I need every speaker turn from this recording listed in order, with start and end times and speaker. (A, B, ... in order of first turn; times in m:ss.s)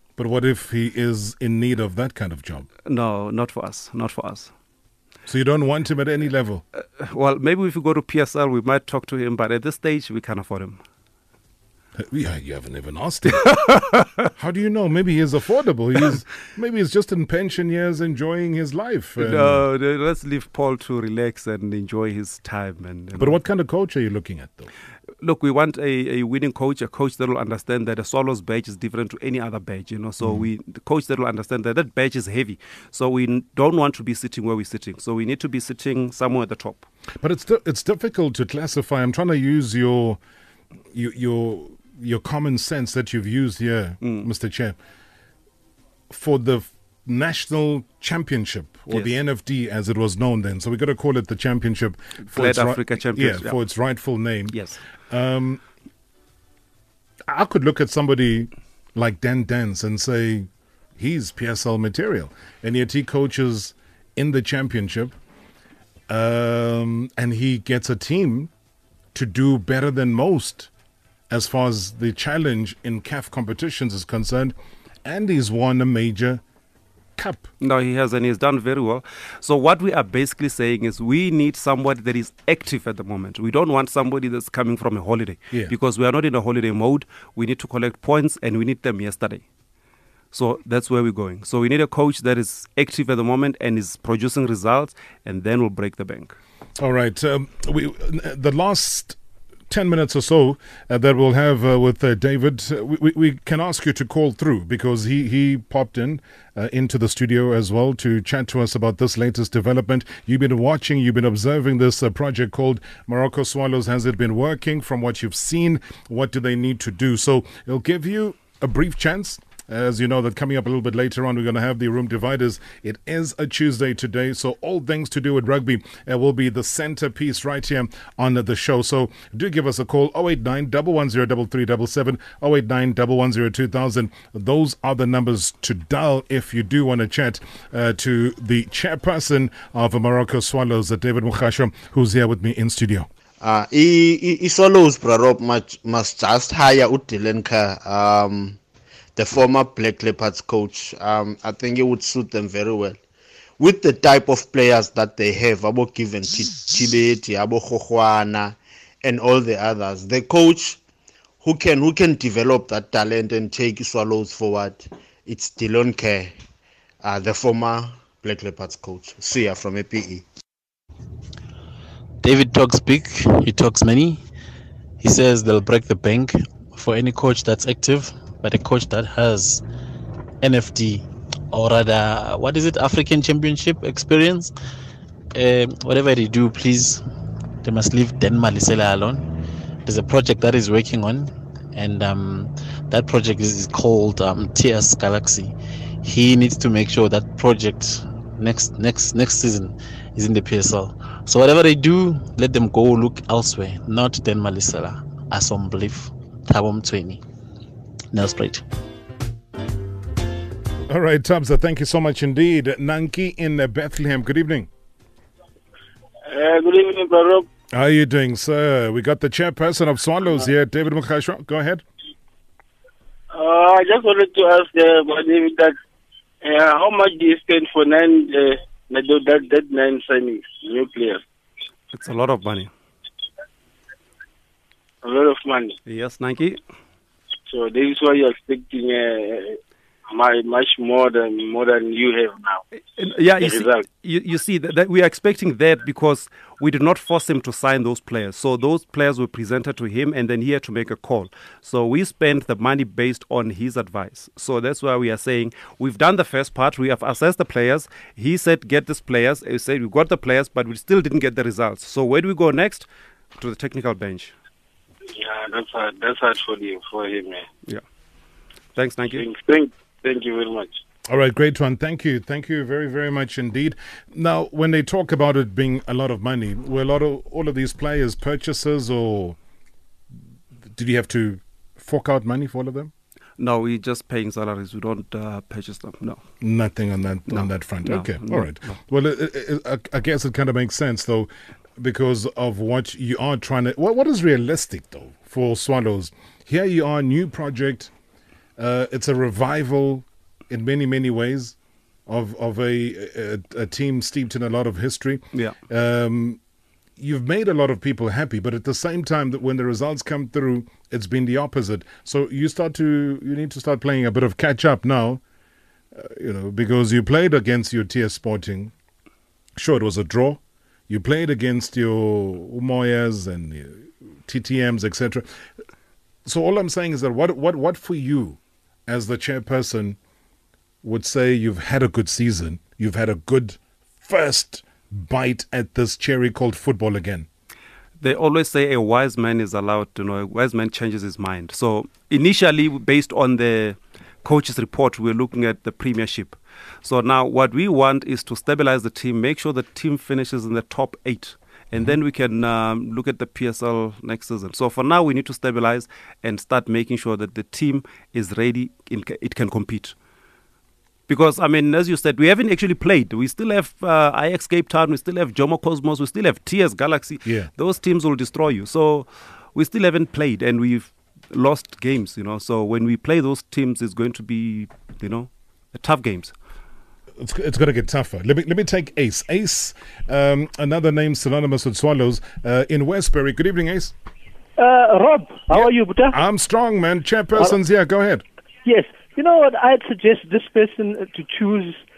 0:00.2-0:02.7 A
0:02.8-0:04.5 B
0:05.3-0:06.6 A
0:06.8-0:10.8 B
0:12.0-0:13.5 A
0:13.4-0:14.3 B
0:14.4-0:19.6 A
0:19.2-0:23.4 B
0:23.2-0:24.7 A
0:25.2-0:36.9 B
0:30.2-0:30.5 A
0:37.2-0:40.2 A
0:40.9-0:44.8 A
0:44.0-0:44.3 B
0:46.1-0:54.6 A
0:48.9-0:49.2 B
0:52.3-0:53.5 B
0:54.5-0:54.8 B
0:55.1-0:55.6 A
0:57.3-1:05.1 A
1:06.1-1:08.5 A
1:09.1-1:10.7 A
1:11.3-1:14.5 A
1:15.0-1:16.4 A
1:17.2-1:17.5 A
1:17.6-1:29.4 B
1:30.3-1:36.4 B
1:36.8-1:39.2 A
1:39.7-2:23.1 A
2:23.4-2:28.6 C
2:29.2-2:33.0 C
2:33.6-2:40.8 C
2:41.4-2:46.4 C
2:47.0-2:50.2 C
2:52.2-2:54.2 D
2:55.0-2:59.6 D
3:00.4-3:04.5 D
3:05.3-3:07.0 D
3:07.6-3:09.2 D
3:09.8-3:27.2 D
3:28.1-3:28.6 D
3:30.9-3:34.7 A
3:36.3-3:37.4 E
3:37.7-3:41.8 A
3:43.3-3:45.8 E
3:46.4-3:51.2 E
3:51.9-3:52.7 B
3:55.0-3:55.8 E
3:55.8-3:56.6 B
3:57.5-4:02.6 E
4:03.0-4:24.3 B
4:03.4-4:03.8 E
4:25.1-4:27.4 E
4:28.8-4:29.2 B
4:29.1-4:30.8 E
4:31.1-4:39.4 A
4:40.7-4:42.9 A
4:43.4-4:46.2 B
4:46.4-4:57.9 A
4:47.3-4:48.7 B
4:58.6-5:01.5 A
5:02.1-5:06.4 A
5:07.0-5:15.2 A
5:15.9-5:18.7 A
5:19.6-5:25.3 A
5:26.2-5:30.0 A
5:30.8-5:37.3 A
5:38.0-5:59.9 B
6:01.1-6:16.3 B
6:17.2-6:23.9 A
6:24.6-6:26.2 F
6:25.5-6:28.2 A
6:28.6-6:31.8 F